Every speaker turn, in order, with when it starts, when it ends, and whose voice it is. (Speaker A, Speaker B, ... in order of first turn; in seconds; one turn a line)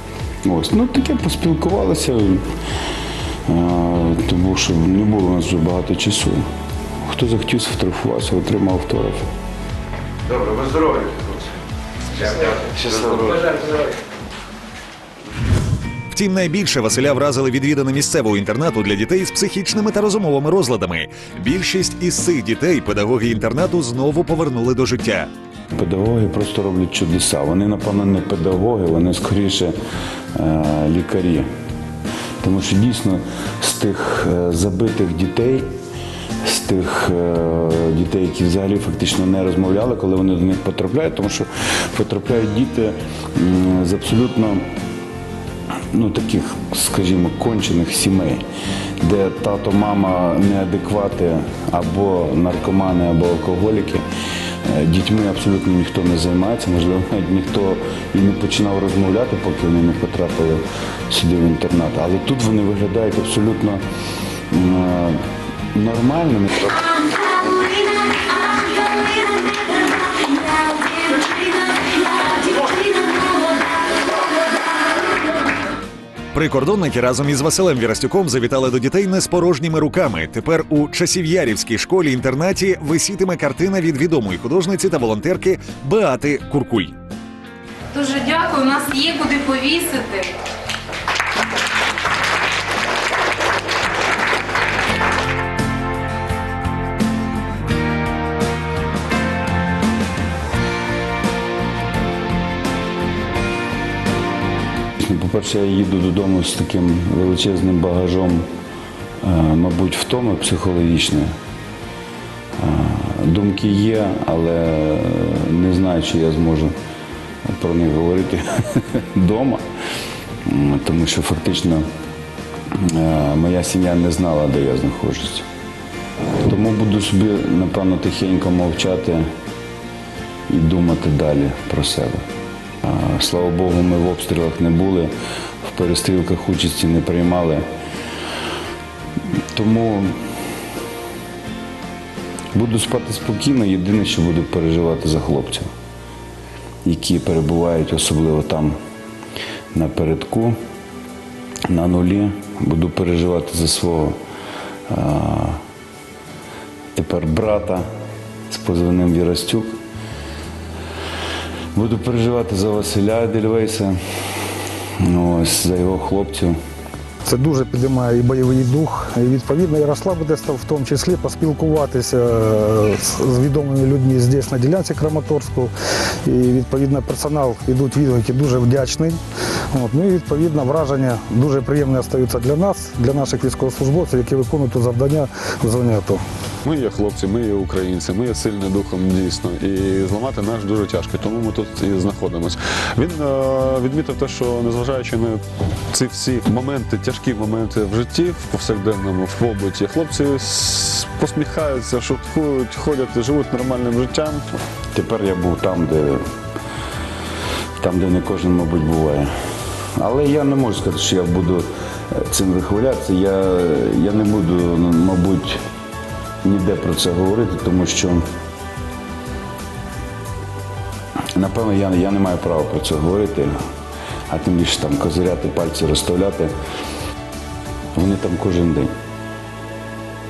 Speaker A: 0.4-2.5
Speaker A: 3.5-6.4
Speaker A: 7.1-9.2
Speaker A: 10.3-11.5
Speaker A: 12.2-13.7
Speaker B: 16.1-25.3
Speaker A: 25.8-29.8
Speaker A: 30.4-31.5
Speaker A: 32.4-35.7
Speaker A: 36.4-44.6
Speaker A: 45.9-48.4
Speaker A: 49.0-54.0
Speaker A: 54.6-63.8
Speaker A: 64.5-65.2
Speaker A: 65.7-67.0
Speaker C: 67.0-73.9
Speaker B: 76.3-87.0
Speaker C: 87.9-90.4
Speaker A: 105.0-108.5
Speaker A: 109.2-111.3
Speaker A: 112.6-116.7
Speaker A: 117.5-119.6
Speaker A: 120.5-121.9
Speaker A: 122.7-125.5
Speaker A: 126.4-129.3
Speaker A: 130.5-132.2
Speaker A: 132.8-135.1
Speaker A: 135.6-137.7
Speaker A: 139.5-140.1
Speaker A: 142.5-145.7
Speaker A: 146.8-148.8
Speaker A: 149.7-150.6
Speaker A: 151.7-154.2
Speaker A: 154.9-155.6
Speaker A: 156.9-157.8
Speaker A: 158.5-159.8
Speaker A: 161.7-164.0
Speaker A: 165.0-166.6
Speaker D: 167.2-175.7
Speaker D: 176.2-179.2
Speaker D: 179.7-186.2
Speaker E: 186.6-204.4
Speaker A: 204.9-206.2
Speaker A: 207.8-209.3
Speaker A: 210.0-215.6
Speaker A: 216.4-218.2
Speaker A: 221.3-223.5
Speaker A: 224.3-226.5
Speaker A: 227.9-228.9